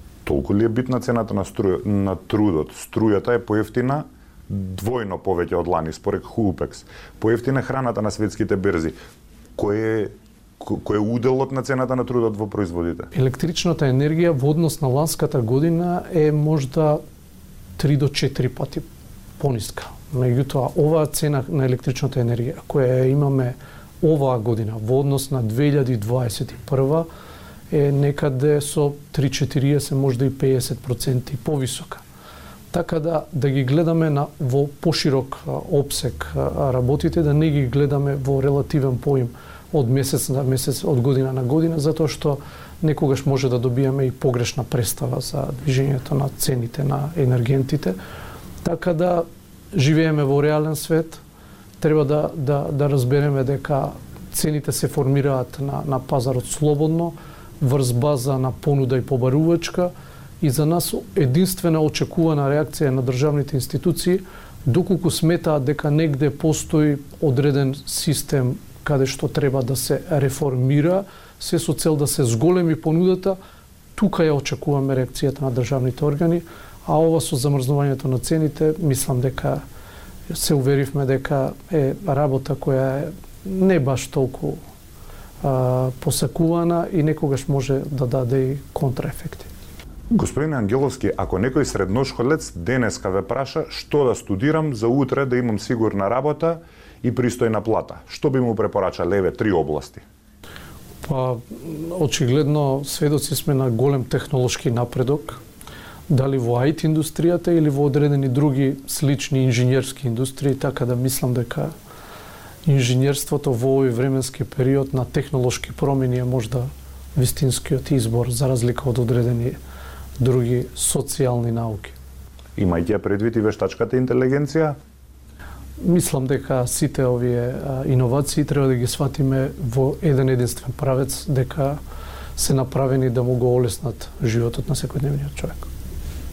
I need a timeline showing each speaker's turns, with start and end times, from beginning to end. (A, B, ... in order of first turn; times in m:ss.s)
0:00.2-0:08.9 A
0:09.6-0:13.1 A
0:13.1-0:17.0 B
0:17.8-0:18.8 B
0:19.4-0:27.1 B
0:27.7-0:32.0 B
0:32.7-0:48.0 B
0:48.6-0:51.2 B
0:51.8-1:13.4 B
1:13.9-1:19.6 B
1:20.3-1:24.6 B
1:25.4-1:29.5 B
1:30.1-1:40.0 A
1:41.0-1:45.4 B
1:46.1-1:51.7 B
1:52.6-1:59.6 B
2:00.2-2:02.0 B
2:02.6-2:04.8 A
2:05.8-2:11.8 B
2:12.4-2:15.7 B